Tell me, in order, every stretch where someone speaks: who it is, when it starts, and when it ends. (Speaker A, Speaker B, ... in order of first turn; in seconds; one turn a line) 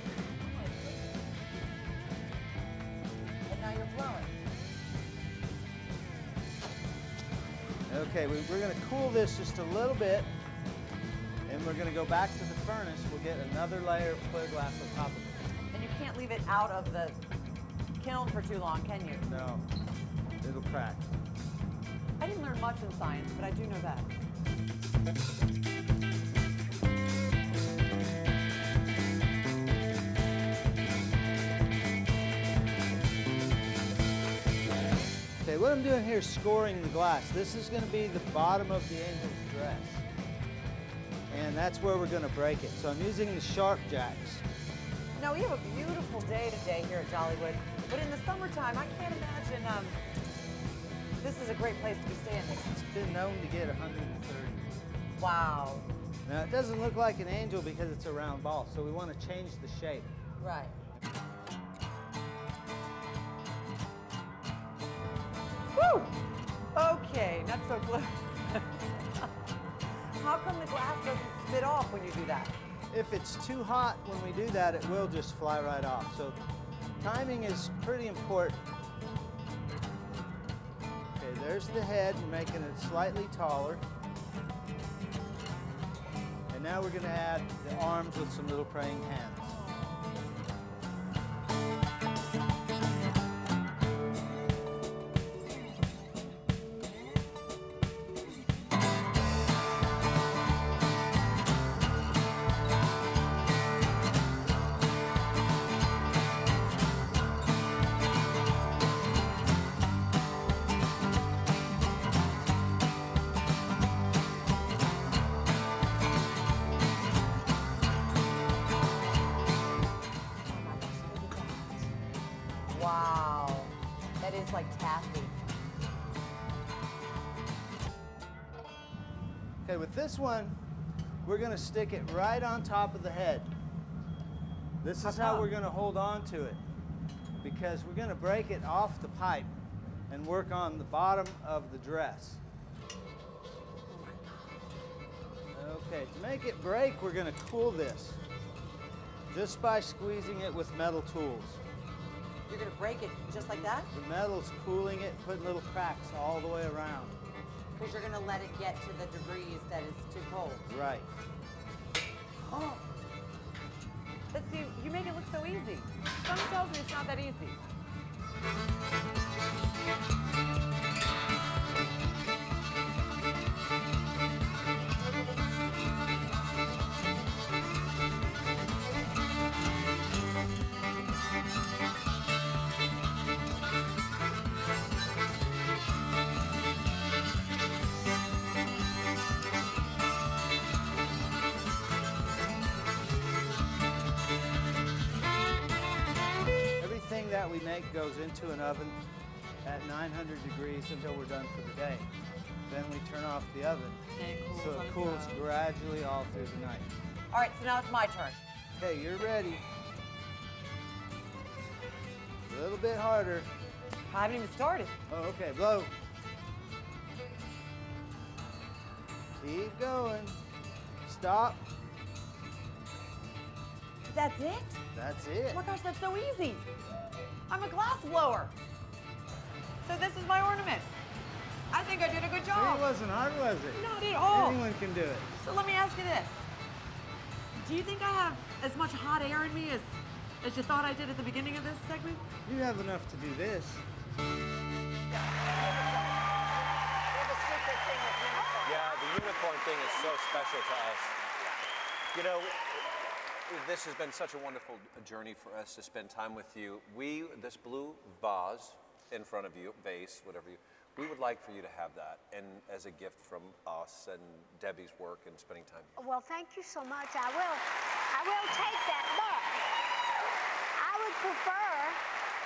Speaker A: 0.5-0.9
Speaker A: 3.5-4.3
Speaker B: 7.9-10.3
Speaker B: 11.5-15.5
Speaker A: 15.7-17.2
Speaker A: 18.0-19.2
Speaker B: 19.2-19.6
Speaker B: 20.4-21.1
Speaker A: 22.2-24.1
Speaker B: 35.4-40.0
Speaker B: 41.3-44.4
Speaker A: 45.1-50.0
Speaker A: 51.2-52.7
Speaker B: 52.7-54.8
Speaker A: 55.1-55.9
Speaker B: 56.2-60.1
Speaker A: 60.4-60.7
Speaker A: 65.7-66.1
Speaker A: 66.7-69.3
Speaker A: 70.2-72.5
Speaker B: 72.9-76.4
Speaker B: 77.0-78.6
Speaker B: 81.2-83.8
Speaker B: 86.5-89.5
Speaker A: 120.4-121.9
Speaker A: 122.7-125.3
Speaker B: 129.6-130.6
Speaker B: 131.2-133.5
Speaker B: 134.8-136.6
Speaker A: 135.0-135.5
Speaker B: 137.4-139.5
Speaker B: 140.1-142.4
Speaker A: 143.9-144.5
Speaker B: 145.5-148.2
Speaker B: 149.3-151.6
Speaker A: 152.5-153.9
Speaker B: 153.3-157.2
Speaker A: 157.7-160.7
Speaker B: 160.7-161.1
Speaker A: 162.5-162.8
Speaker A: 164.3-167.6
Speaker B: 196.8-199.0
Speaker B: 199.6-202.1
Speaker B: 202.7-204.0
Speaker A: 204.2-205.4
Speaker B: 204.5-206.9
Speaker A: 207.3-208.3
Speaker B: 208.8-209.6
Speaker B: 212.5-213.5
Speaker A: 214.1-214.9
Speaker B: 215.1-215.9
Speaker B: 219.4-220.4
Speaker B: 221.1-221.6
Speaker A: 224.1-224.8
Speaker B: 224.9-225.6
Speaker A: 225.5-226.7
Speaker A: 227.5-228.5
Speaker A: 229.8-230.9
Speaker A: 231.7-232.9
Speaker B: 232.5-235.3
Speaker A: 233.7-234.6
Speaker A: 235.4-236.4
Speaker A: 237.6-242.3
Speaker B: 242.4-243.8
Speaker C: 245.4-245.9
Speaker C: 247.1-250.4
Speaker A: 248.3-248.7
Speaker D: 248.6-251.2
Speaker D: 252.1-265.9
Speaker E: 266.0-269.7
Speaker E: 270.7-272.0